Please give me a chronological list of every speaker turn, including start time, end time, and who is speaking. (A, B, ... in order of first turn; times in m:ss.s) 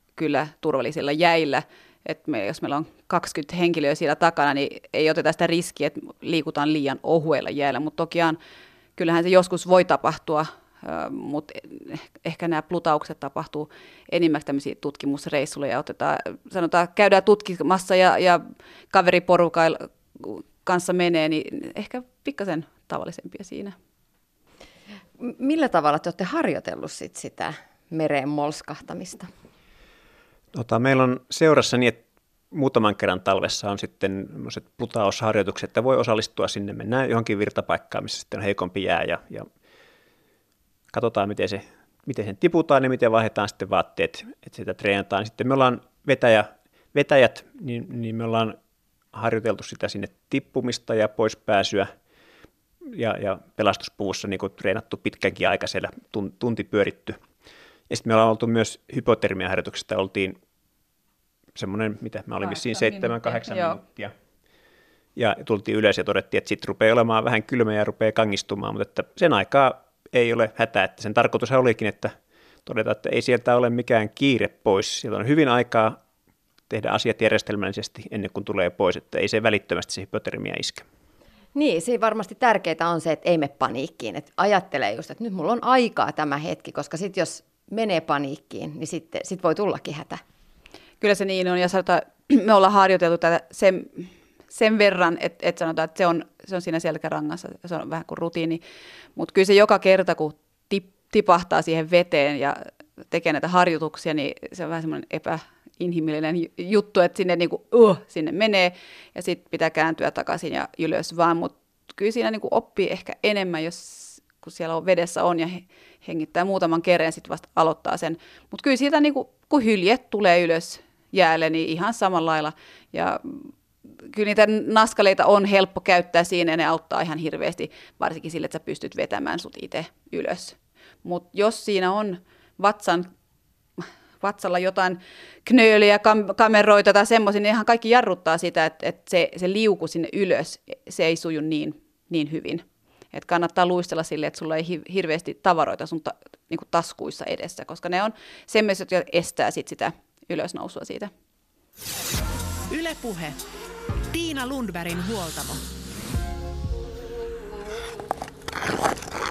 0:00.2-0:08.4 A
0:09.0-0:23.8 A
0:25.2-0:29.3 B
0:30.6-0:39.5 C
0:40.9-0:48.6 C
0:49.1-0:51.9 C
0:52.9-0:57.2 C
0:57.9-1:00.4 C
1:01.6-1:04.1 C
1:02.5-1:03.8 A
1:05.2-1:12.1 C
1:12.7-1:16.0 C
1:16.7-1:20.9 C
1:21.5-1:30.2 B
1:31.0-1:38.6 A
1:39.2-2:03.5 A
2:04.1-2:13.1 A
2:13.8-2:31.1 A
2:32.7-2:33.4 D
2:34.1-2:35.6 D